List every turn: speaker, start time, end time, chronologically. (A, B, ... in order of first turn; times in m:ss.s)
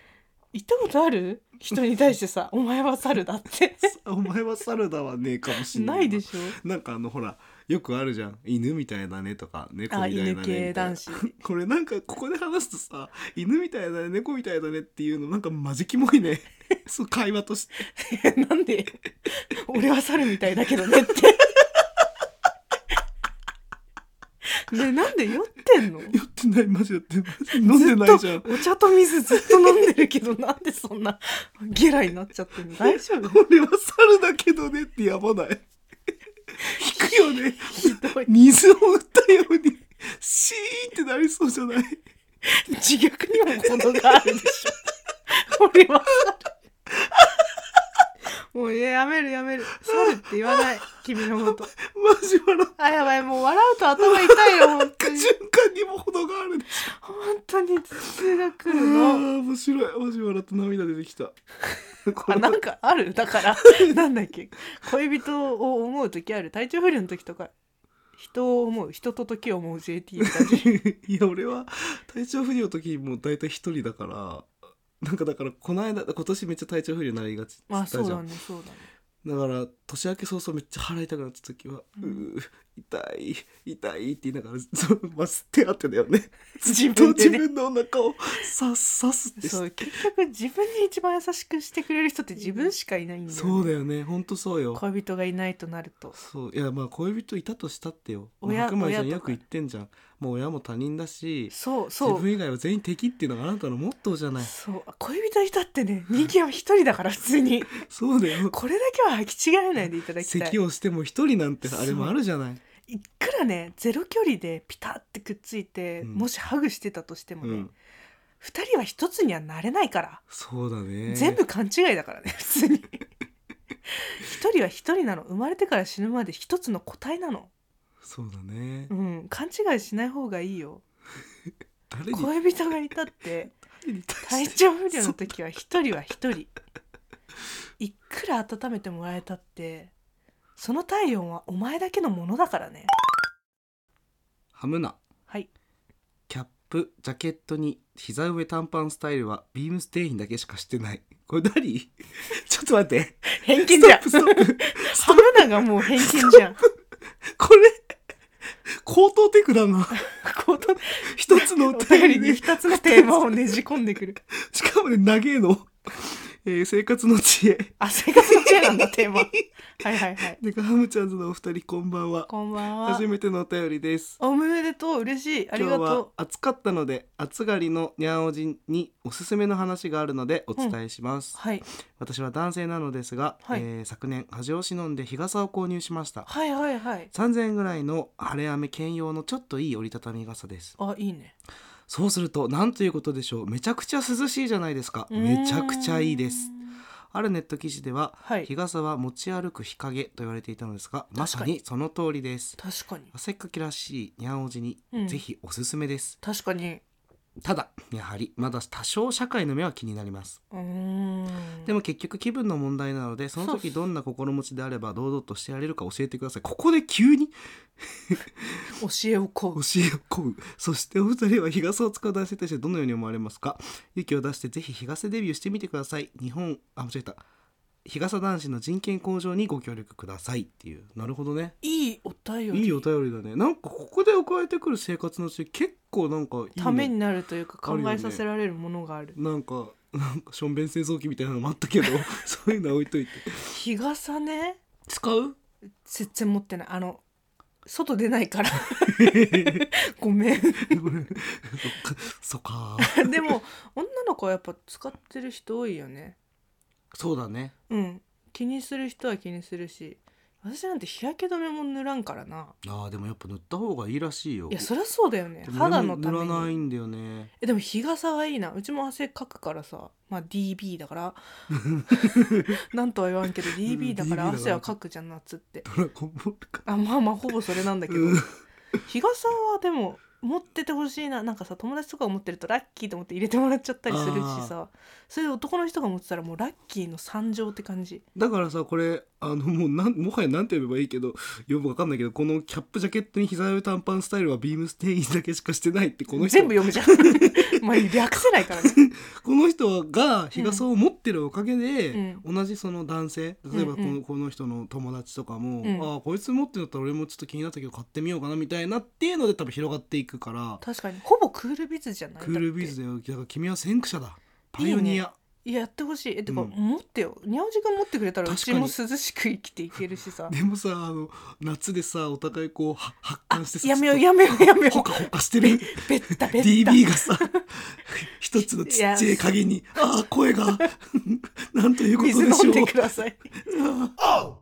0:00.5-0:03.9 A
0:03.8-0:17.9 B
0:05.7-0:06.6 A
0:09.9-0:11.3 A
0:17.9-0:21.6 A
0:24.6-0:26.2 A
0:26.1-0:28.6 B
0:27.6-0:33.4 A
0:29.3-0:29.7 B
0:32.8-0:35.6 B
0:36.6-0:38.3 A
0:36.6-0:42.0 B
0:42.4-0:46.5 A
0:48.5-0:51.7 A
0:49.8-0:50.6 B
0:51.4-0:52.8 B
0:52.8-0:55.3 A
0:54.0-0:56.9 B
0:56.8-0:59.3 A
0:58.6-1:01.4 B
1:02.0-1:02.6 B
1:02.2-1:07.5 A
1:08.2-1:10.7 A
1:10.2-1:18.2 B
1:17.7-1:18.9 A
1:19.2-1:29.9 B
1:22.0-1:22.2 A
1:26.6-1:27.4 A
1:29.4-1:33.7 A
1:33.3-1:34.8 B
1:34.7-1:36.2 A
1:36.2-1:44.5 B
1:38.4-1:39.4 A
1:41.5-1:42.3 A
1:44.4-1:47.8 A
1:47.7-1:48.5 B
1:48.5-1:50.6 A
1:50.2-1:52.6 B
1:51.6-1:52.2 A
1:52.9-1:57.7 A
1:56.0-1:56.3 B
1:57.4-1:57.7 B
1:58.4-2:00.2 A
2:00.3-2:01.4 B
2:01.1-2:03.0 A
2:03.9-2:07.5 A
2:08.0-2:08.9 B
2:08.9-2:10.8 A
2:11.9-2:12.3 B
2:12.1-2:13.5 A
2:13.8-2:15.3 B
2:14.2-2:16.5 A
2:17.8-2:19.9 A
2:20.6-2:22.9 A
2:24.5-2:25.0 B
2:26.3-2:36.4 B
2:33.3-2:36.6 A
2:37.3-2:37.8 B
2:38.8-2:40.0 B
2:40.0-2:44.2 A
2:41.0-2:43.3 B
2:44.3-2:49.3 B
2:47.8-2:50.4 A
2:50.4-2:54.2 B
2:52.3-2:53.0 A
2:54.2-2:56.1 A
2:55.5-3:01.4 B
3:01.3-3:01.6 A
3:02.0-3:06.3 B
3:06.2-3:07.1 A
3:07.1-3:10.8 B
3:10.8-3:11.3 A
3:11.9-3:16.5 B
3:15.1-3:16.8 A
3:17.1-3:22.6 B
3:18.2-3:18.5 A
3:21.2-3:21.5 A
3:22.6-3:23.1 A
3:23.1-3:26.2 B
3:24.9-3:25.2 A
3:26.2-3:26.8 A
3:27.4-3:30.4 B
3:30.5-3:31.7 A
3:31.6-3:38.7 B
3:33.4-3:33.7 A
3:38.8-3:39.6 A
3:39.5-3:47.2 B
3:47.8-3:51.6 B
3:51.6-3:52.8 A
3:52.5-3:56.9 B
3:56.6-3:59.2 A
3:57.6-3:58.2 B
3:59.1-4:03.4 B
4:03.4-4:04.6 A
4:04.9-4:05.4 B
4:05.8-4:07.0 A
4:07.6-4:10.9 A
4:08.8-4:09.7 B
4:10.6-4:13.3 B
4:12.8-4:16.2 A
4:16.9-4:17.5 B
4:17.7-4:22.6 A
4:22.6-4:24.7 B
4:24.5-4:26.6 A
4:25.4-4:27.3 B
4:27.4-4:31.2 A
4:31.5-4:32.5 B
4:31.9-4:35.6 A
4:33.6-4:34.7 B
4:35.6-4:36.6 B
4:36.6-4:38.2 A
4:37.9-4:38.3 B
4:38.8-4:48.0 A
4:43.9-4:44.5 B
4:48.1-4:57.6 B
4:56.1-4:58.8 A
4:58.5-5:10.6 B
5:00.3-5:00.6 A
5:01.9-5:02.2 A
5:03.5-5:04.0 A
5:05.6-5:05.9 A
5:10.6-5:12.8 A
5:12.2-5:15.1 B
5:14.6-5:20.4 A
5:16.3-5:16.5 B
5:18.2-5:18.7 B
5:20.3-5:32.8 B
5:23.3-5:27.4 A
5:28.4-5:29.3 A
5:31.9-5:33.2 A
5:33.4-5:34.2 B